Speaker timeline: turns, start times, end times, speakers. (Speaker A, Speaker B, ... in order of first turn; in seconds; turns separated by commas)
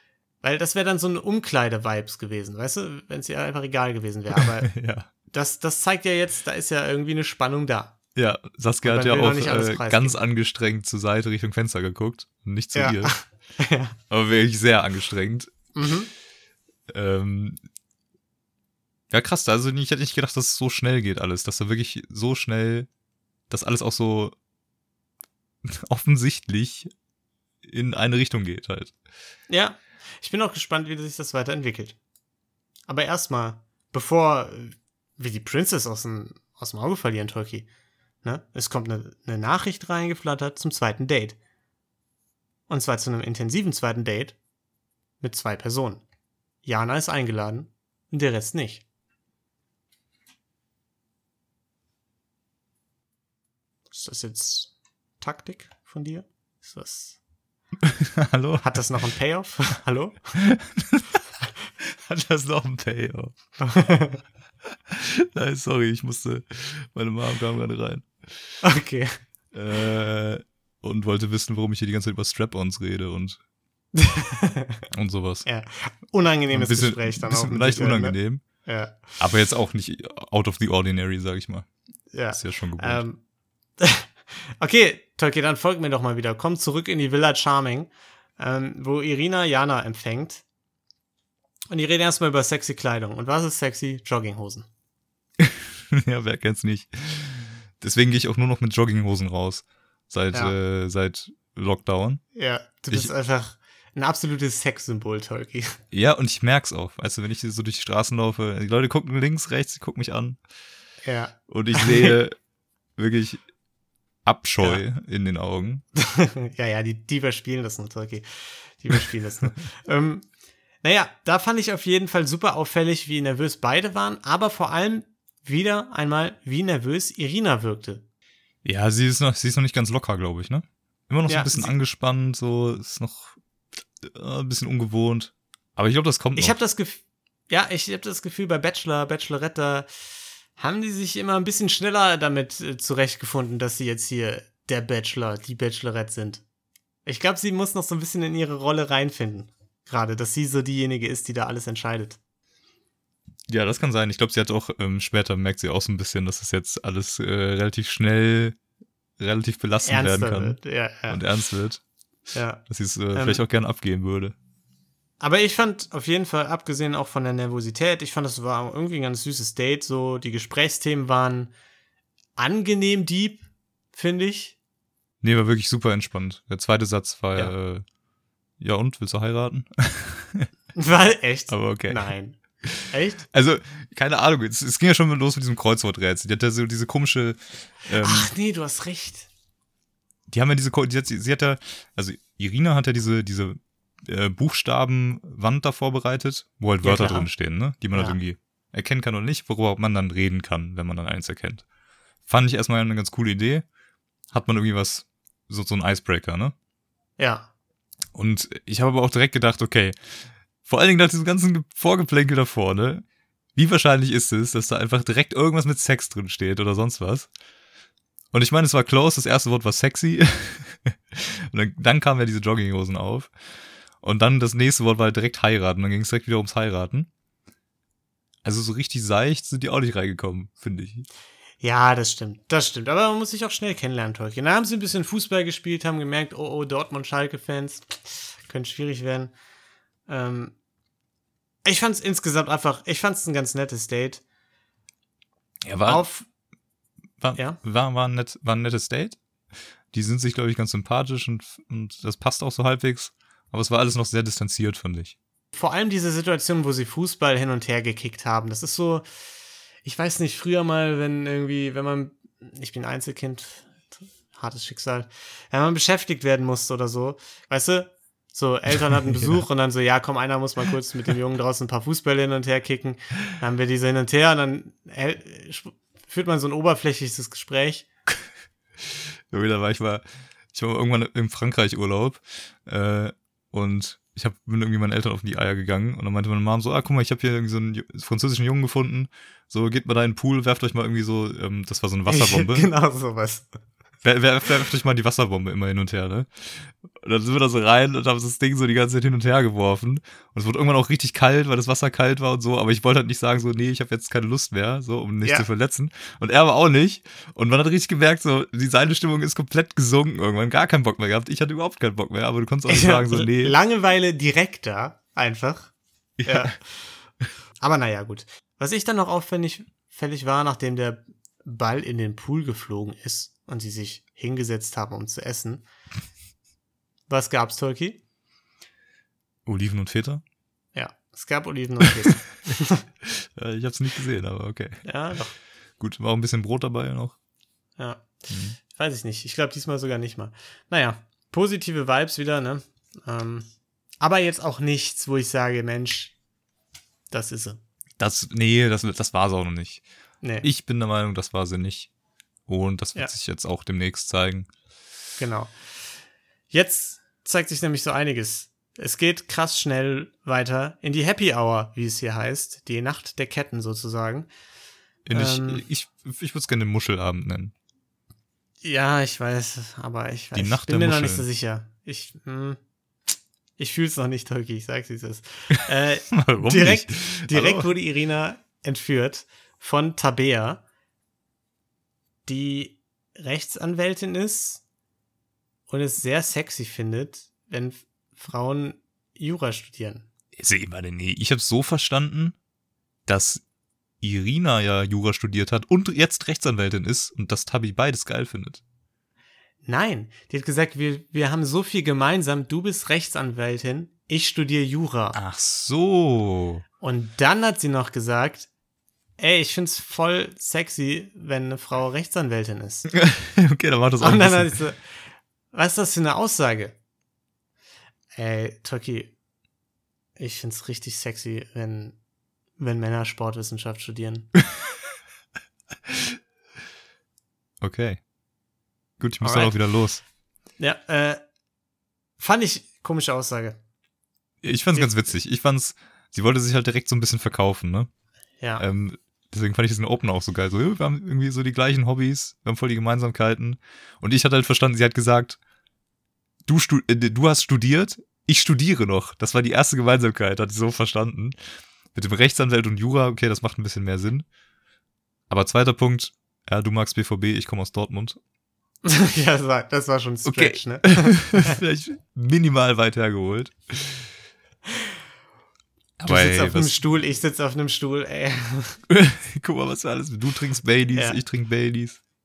Speaker A: 0.4-4.7, Speaker B: 4.4-5.1, Speaker A: 5.3-7.9, Speaker B: 8.2-13.2, Speaker A: 8.8-10.2, Speaker A: 12.8-13.9, Speaker B: 14.1-15.5, Speaker A: 15.8-16.1, Speaker B: 16.9-17.6, Speaker B: 19.1-22.9, Speaker B: 23.5-24.3, Speaker B: 25.6-26.9, Speaker B: 27.6-28.9, Speaker A: 29.5-32.0, Speaker A: 32.9-37.7, Speaker A: 38.2-41.4, Speaker A: 42.7-44.4, Speaker A: 45.2-46.0, Speaker A: 46.6-48.8, Speaker A: 53.9-57.2, Speaker B: 57.9-58.7, Speaker A: 58.6-60.4, Speaker B: 60.4-61.1, Speaker B: 61.8-63.4, Speaker A: 63.6-64.2, Speaker B: 64.9-68.1, Speaker A: 68.6-69.2, Speaker B: 69.5-73.4, Speaker A: 74.0-74.8, Speaker B: 74.9-75.5, Speaker A: 75.5-79.2, Speaker B: 76.5-78.4, Speaker B: 79.2-81.7, Speaker A: 82.1-83.2, Speaker B: 82.3-83.0, Speaker A: 83.8-90.4, Speaker A: 91.7-94.7, Speaker B: 95.4-102.2, Speaker A: 102.3-105.8, Speaker B: 105.9-110.4, Speaker A: 111.0-112.2, Speaker B: 111.5-112.4, Speaker B: 113.0-113.4, Speaker B: 114.2-115.8, Speaker A: 116.0-120.3, Speaker A: 120.8-128.0, Speaker B: 128.6-133.4, Speaker A: 131.3-131.8, Speaker B: 134.0-136.6, Speaker A: 136.4-139.9, Speaker A: 140.6-146.4, Speaker A: 147.1-152.2, Speaker B: 153.5-158.6, Speaker B: 159.2-161.8, Speaker A: 159.8-161.2, Speaker A: 162.3-162.6, Speaker B: 162.7-164.3, Speaker A: 163.1-163.4, Speaker A: 165.2-171.5, Speaker A: 172.4-174.6, Speaker B: 175.2-177.8, Speaker B: 178.6-180.5, Speaker A: 180.8-183.3, Speaker B: 181.5-182.1, Speaker B: 182.6-188.3, Speaker A: 188.0-189.3, Speaker B: 190.3-201.6, Speaker A: 196.8-197.3, Speaker A: 197.9-198.2, Speaker B: 202.3-203.7, Speaker B: 204.3-206.5, Speaker A: 207.2-207.5, Speaker B: 208.1-213.1, Speaker B: 213.6-217.3, Speaker B: 218.3-223.3, Speaker B: 224.0-227.1, Speaker B: 228.4-231.1, Speaker A: 231.6-239.3, Speaker A: 240.1-240.5, Speaker A: 241.7-244.2, Speaker B: 245.6-246.0, Speaker A: 245.8-246.2, Speaker B: 247.2-249.2, Speaker B: 249.9-255.2, Speaker A: 255.5-259.1, Speaker A: 259.8-277.9, Speaker B: 278.8-292.7, Speaker A: 292.1-293.5, Speaker B: 294.0-313.6, Speaker A: 312.7-315.7, Speaker B: 316.2-316.6, Speaker A: 316.2-316.6, Speaker A: 317.6-325.6, Speaker A: 327.1-328.0, Speaker B: 329.5-330.2, Speaker A: 330.8-332.8, Speaker B: 333.1-334.9, Speaker A: 334.9-335.4, Speaker B: 335.8-337.2, Speaker A: 337.8-338.1, Speaker B: 338.3-338.6, Speaker A: 338.7-343.5, Speaker A: 344.0-346.1, Speaker A: 347.1-347.6, Speaker B: 348.0-349.8, Speaker A: 350.2-350.5, Speaker B: 350.4-351.9, Speaker B: 352.5-354.5, Speaker A: 355.2-355.5, Speaker A: 356.5-364.3, Speaker B: 365.1-367.5, Speaker A: 365.1-365.6, Speaker A: 368.6-372.6, Speaker B: 370.4-371.3, Speaker A: 373.6-380.6, Speaker B: 376.1-377.7, Speaker A: 382.3-384.6, Speaker A: 385.7-390.1, Speaker B: 390.4-392.4, Speaker B: 393.1-393.4, Speaker B: 394.0-398.6, Speaker A: 399.6-405.2, Speaker B: 405.1-406.6, Speaker A: 406.8-408.5, Speaker A: 409.2-412.9, Speaker B: 412.9-414.6, Speaker A: 414.0-414.8, Speaker A: 415.5-416.8, Speaker A: 418.1-419.1, Speaker A: 420.2-422.0, Speaker A: 422.6-424.3, Speaker B: 427.6-428.0, Speaker B: 429.0-430.0, Speaker A: 429.2-429.5, Speaker A: 430.6-431.2, Speaker A: 432.2-433.6, Speaker B: 434.4-437.9, Speaker A: 434.7-435.1, Speaker B: 438.6-445.4, Speaker B: 446.5-451.4, Speaker B: 451.9-454.3, Speaker B: 455.3-458.2, Speaker A: 458.8-461.6, Speaker B: 460.2-464.1, Speaker B: 466.0-466.8, Speaker A: 466.1-468.8, Speaker B: 468.9-472.0, Speaker A: 470.9-471.2